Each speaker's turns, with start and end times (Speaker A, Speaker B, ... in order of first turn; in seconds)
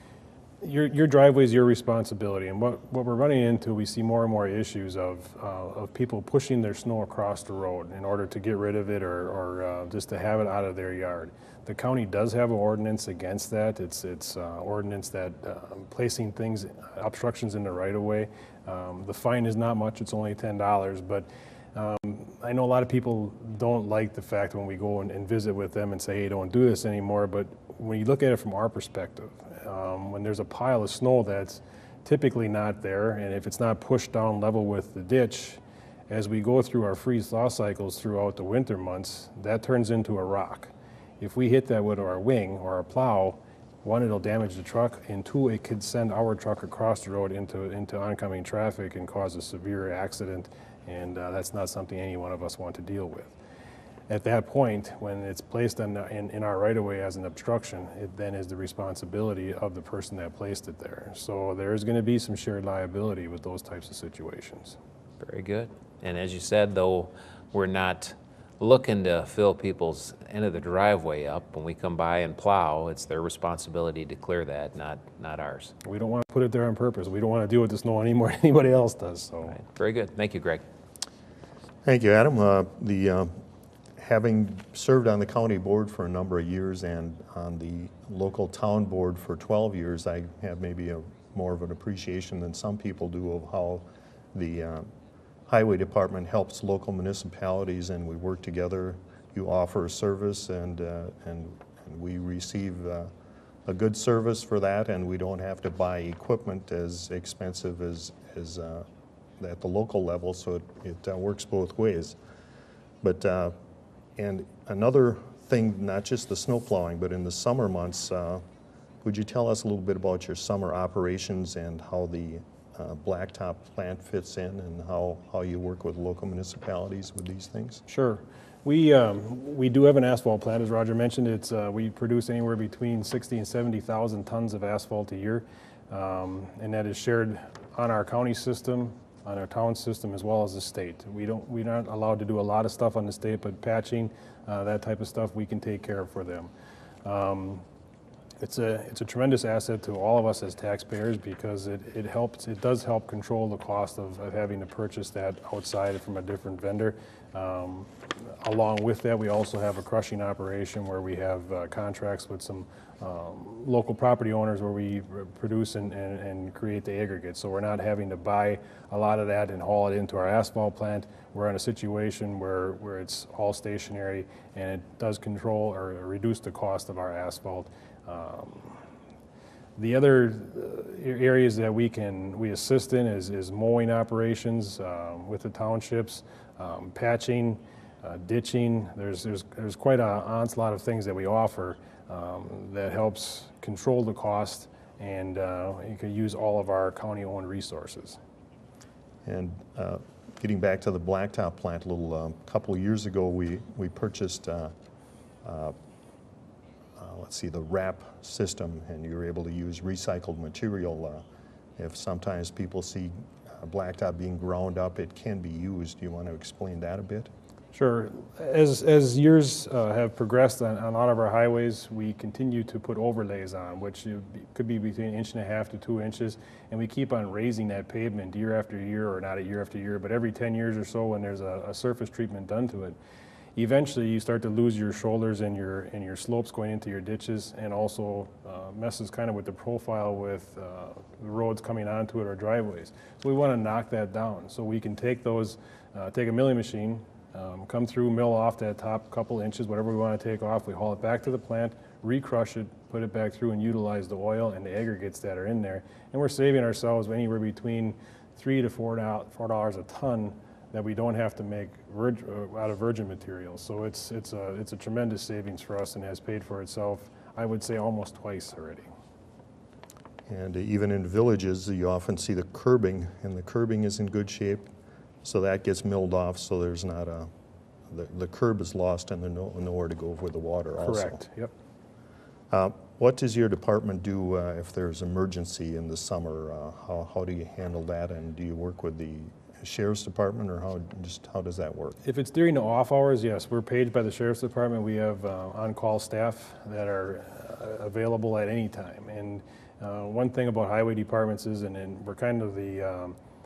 Speaker A: 0.6-53.4, 54.1-64.8, 75.8-79.6, 127.9-146.5, 147.1-147.6, 148.4-178.8, 179.8-198.2, 217.7-233.0, 233.6-268.9, 280.8-281.5, 292.0-303.2
Speaker B: 65.2-75.7, 79.5-80.6
Speaker C: 81.8-83.4, 84.0-94.9, 95.5-103.1, 103.7-108.9, 109.4-112.2, 113.0-113.6, 114.2-118.4, 119.0-127.8, 199.2-204.7, 205.4-205.8, 207.0-211.2, 211.8-217.3, 270.3-274.7, 275.2-277.3, 277.9-281.2, 282.5-292.0